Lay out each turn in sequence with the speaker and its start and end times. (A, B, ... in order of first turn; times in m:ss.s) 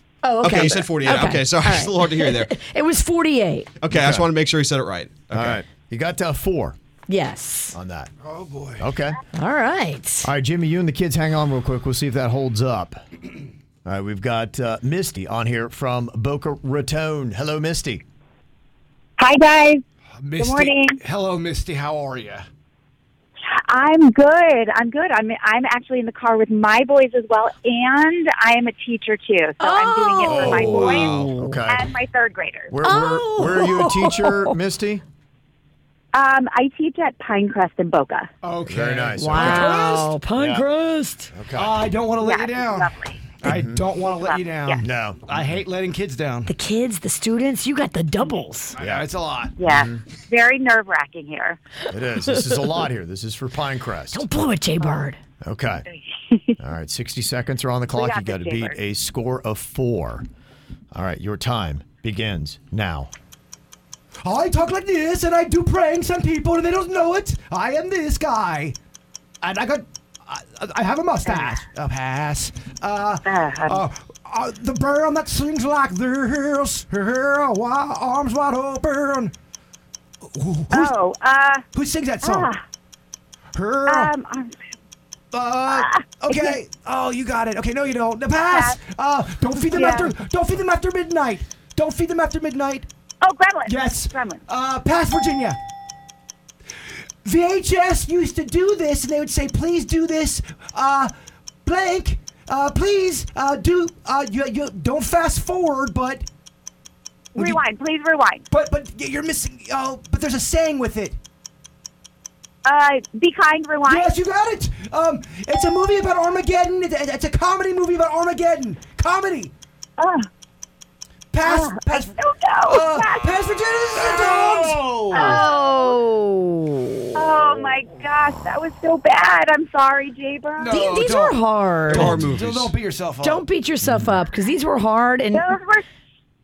0:00.2-0:03.7 A
0:00.4-0:02.5 B
0:03.8-0:05.6 B
0:03.9-0:04.3 C
0:05.3-0:06.8 C
0:07.1-0:07.8 A
0:07.7-0:08.1 C
0:08.2-0:08.9 D
0:08.8-0:09.2 C
0:09.3-0:10.3 A
0:10.2-0:13.0 C
0:13.8-0:18.0 C
0:19.2-0:19.8 E
0:20.2-0:22.4 D
0:20.4-0:21.0 E
0:23.7-0:31.2 E
0:29.6-0:31.6 A
0:30.3-0:31.9 C
0:30.4-0:31.0 D
0:31.7-0:32.7 E
0:32.7-0:35.0 C
0:32.8-0:34.5 A
0:36.1-0:38.3 E
0:38.4-0:40.1 D
0:38.6-0:39.8 C
0:39.2-0:41.3 A
0:40.4-0:40.6 C
0:41.3-0:41.8 C
0:41.6-0:46.5 D
0:42.2-0:43.2 E
0:43.5-0:43.8 C
0:44.0-0:44.8 E
0:44.8-0:45.6 C
0:46.5-0:48.7 A
0:48.7-0:49.6 D
0:48.8-0:49.0 C
0:49.6-0:51.6 E
0:49.6-0:50.0 C
0:51.9-0:54.2 C
0:54.1-0:55.2 A
0:55.4-0:55.8 C
0:55.9-0:56.6 E
0:56.6-1:00.2 C
0:58.0-0:58.8 E
1:00.9-1:03.1 C
1:04.2-1:08.8 D
1:09.4-1:19.3 D
1:11.2-1:11.6 E
1:13.2-1:13.8 E
1:20.3-1:21.0 D
1:20.7-1:21.6 E
1:21.7-1:22.5 D
1:22.2-1:22.6 E
1:23.5-1:24.1 D
1:23.8-1:24.5 E
1:25.3-1:32.9 D
1:25.7-1:26.6 E
1:28.4-1:28.8 E
1:29.7-1:30.1 E
1:33.2-1:34.4 E
1:33.6-1:35.6 D
1:37.2-1:41.1 D
1:41.6-1:46.2 D
1:47.3-1:48.4 E
1:47.3-1:47.6 D
1:48.5-1:51.2 D
1:52.6-1:54.1 E
1:53.8-1:59.5 D
2:00.0-2:00.3 E
2:01.3-2:05.4 D
2:01.4-2:03.4 E
2:03.9-2:04.4 E
2:05.1-2:06.0 E
2:05.1-2:07.4 A
2:07.1-2:11.0 E
2:10.6-2:11.4 D
2:10.7-2:12.2 A
2:11.9-2:13.4 D
2:11.9-2:12.7 B
2:12.2-2:12.4 C
2:13.2-2:15.5 A
2:13.8-2:14.2 C
2:15.3-2:15.8 E